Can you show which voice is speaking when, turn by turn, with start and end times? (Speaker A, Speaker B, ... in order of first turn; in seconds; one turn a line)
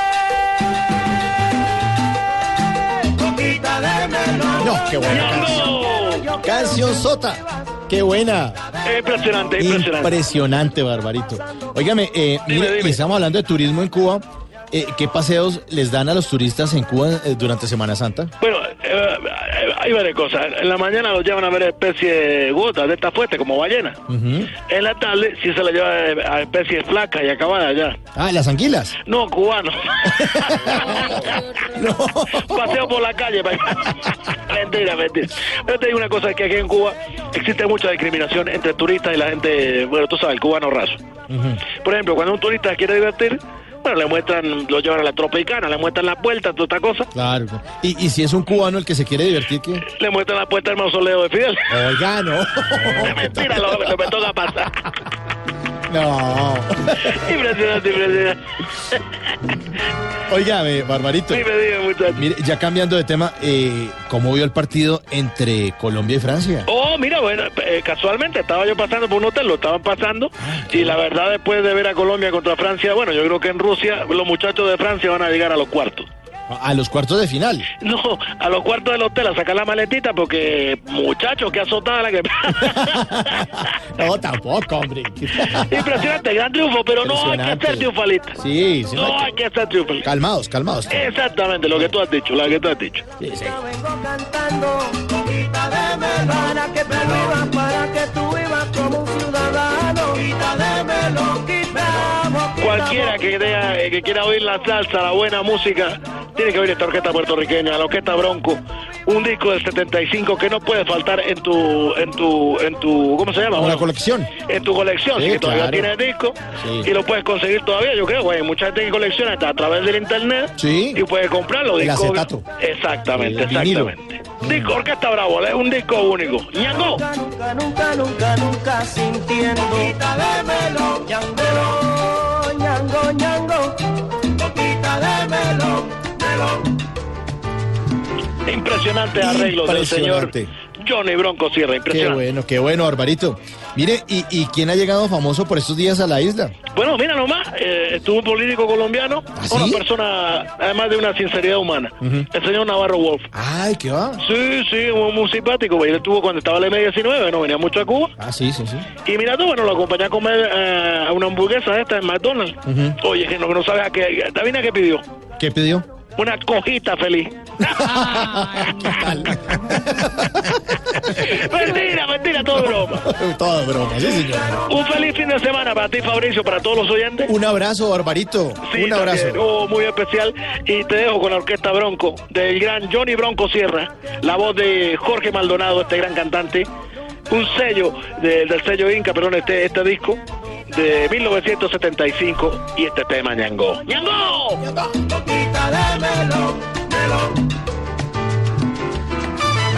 Speaker A: 3.2-4.7
Speaker B: 4.6-5.6
Speaker C: 5.0-6.3
Speaker B: 6.3-8.6
Speaker C: 8.8-10.1
Speaker B: 9.6-18.3
Speaker C: 12.5-13.0
Speaker C: 18.4-24.0
Speaker B: 24.1-24.5
Speaker C: 24.6-28.0
Speaker B: 28.1-29.0
Speaker C: 29.1-29.8
Speaker B: 30.1-32.8
Speaker C: 30.4-31.5
Speaker C: 32.3-41.0
Speaker B: 41.3-41.6
Speaker C: 41.7-47.1
Speaker B: 47.1-49.8
Speaker C: 49.9-51.7
Speaker B: 51.7-53.7
Speaker C: 52.8-54.9
Speaker B: 55.9-57.1
Speaker C: 57.0-58.4
Speaker B: 60.3-61.5
Speaker C: 61.3-62.2
Speaker B: 62.1-66.7
Speaker C: 66.7-76.1
Speaker B: 70.4-71.0
Speaker B: 76.5-77.7
Speaker C: 77.8-83.6
Speaker B: 82.6-85.9
Speaker C: 85.4-88.3
Speaker B: 87.0-89.3
Speaker C: 88.9-90.1
Speaker B: 90.0-91.1
Speaker C: 90.9-93.0
Speaker B: 93.2-93.6
Speaker A: 93.6-103.2
Speaker C: 102.6-127.0
Speaker B: 113.5-114.3
Speaker B: 115.1-115.9
Speaker B: 116.6-116.9
Speaker B: 120.6-121.0
Speaker B: 121.8-122.4
Speaker B: 123.1-124.8
Speaker A: 126.8-136.7
Speaker C: 138.4-142.2
Speaker B: 139.2-140.5
Speaker B: 141.9-146.5
Speaker C: 146.7-153.3
Speaker B: 149.3-149.8
Speaker B: 152.0-152.3
Speaker B: 153.3-154.2
Speaker C: 154.2-158.1
Speaker B: 158.2-158.9
Speaker C: 159.0-165.0
Speaker B: 162.7-163.0
Speaker B: 165.4-165.8
Speaker C: 166.2-169.3
Speaker B: 167.6-171.2
Speaker C: 171.1-173.1
Speaker B: 172.9-174.7
Speaker C: 174.7-177.3
Speaker B: 177.2-179.4
Speaker C: 178.7-186.7
Speaker C: 187.3-194.6
Speaker A: 195.0-197.4